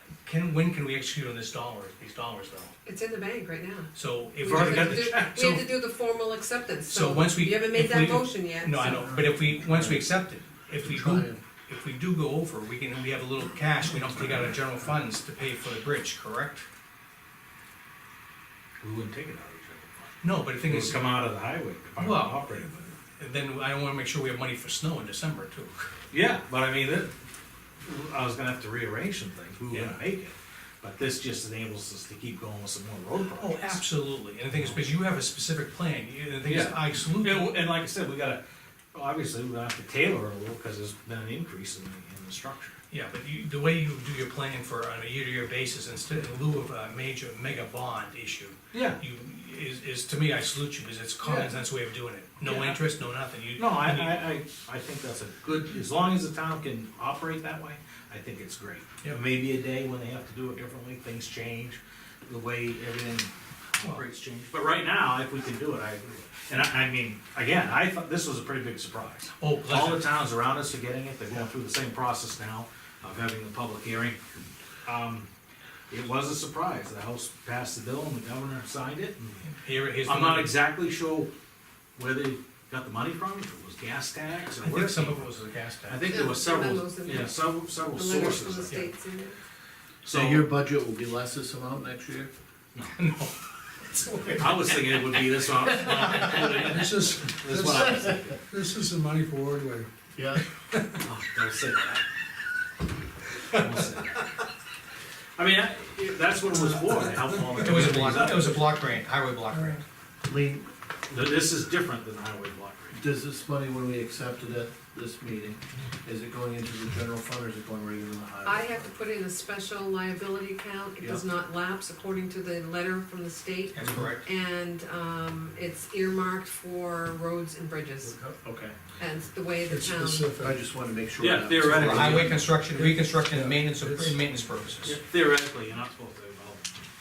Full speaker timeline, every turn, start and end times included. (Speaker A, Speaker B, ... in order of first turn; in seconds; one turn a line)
Speaker A: 0.3-2.7
Speaker B: 2.9-9.0
Speaker A: 4.0-5.7
Speaker C: 4.4-5.6
Speaker A: 6.9-16.7
Speaker D: 8.8-10.1
Speaker D: 10.8-11.4
Speaker C: 18.8-22.6
Speaker A: 20.2-21.1
Speaker A: 22.0-25.9
Speaker C: 26.1-27.1
Speaker C: 27.9-33.8
Speaker A: 29.7-30.0
Speaker A: 33.4-37.6
Speaker C: 36.5-38.4
Speaker C: 38.9-42.8
Speaker A: 42.9-54.3
Speaker C: 48.7-49.0
Speaker C: 51.2-51.5
Speaker C: 52.4-52.8
Speaker C: 53.5-74.2
Speaker A: 69.4-70.1
Speaker C: 74.8-75.3
Speaker C: 75.9-79.4
Speaker A: 79.4-80.6
Speaker C: 80.0-81.3
Speaker C: 82.0-85.3
Speaker A: 84.6-86.2
Speaker C: 85.9-88.9
Speaker B: 86.0-89.4
Speaker C: 90.0-90.5
Speaker D: 90.1-92.3
Speaker A: 92.9-95.2
Speaker C: 94.3-98.4
Speaker A: 95.9-96.3
Speaker E: 96.6-99.9
Speaker D: 97.6-98.3
Speaker D: 100.2-100.4
Speaker C: 101.0-102.0
Speaker C: 103.5-104.3
Speaker C: 105.4-108.7
Speaker A: 107.5-109.8
Speaker D: 110.2-110.7
Speaker C: 111.1-113.0
Speaker D: 112.9-118.8
Speaker B: 118.4-128.2
Speaker A: 123.7-124.2
Speaker E: 123.8-124.1
Speaker D: 128.2-128.9
Speaker B: 128.9-130.4
Speaker E: 129.7-130.6
Speaker D: 130.4-132.5
Speaker C: 131.2-132.5
Speaker A: 131.6-135.0
Speaker E: 132.2-134.3
Speaker C: 134.8-136.7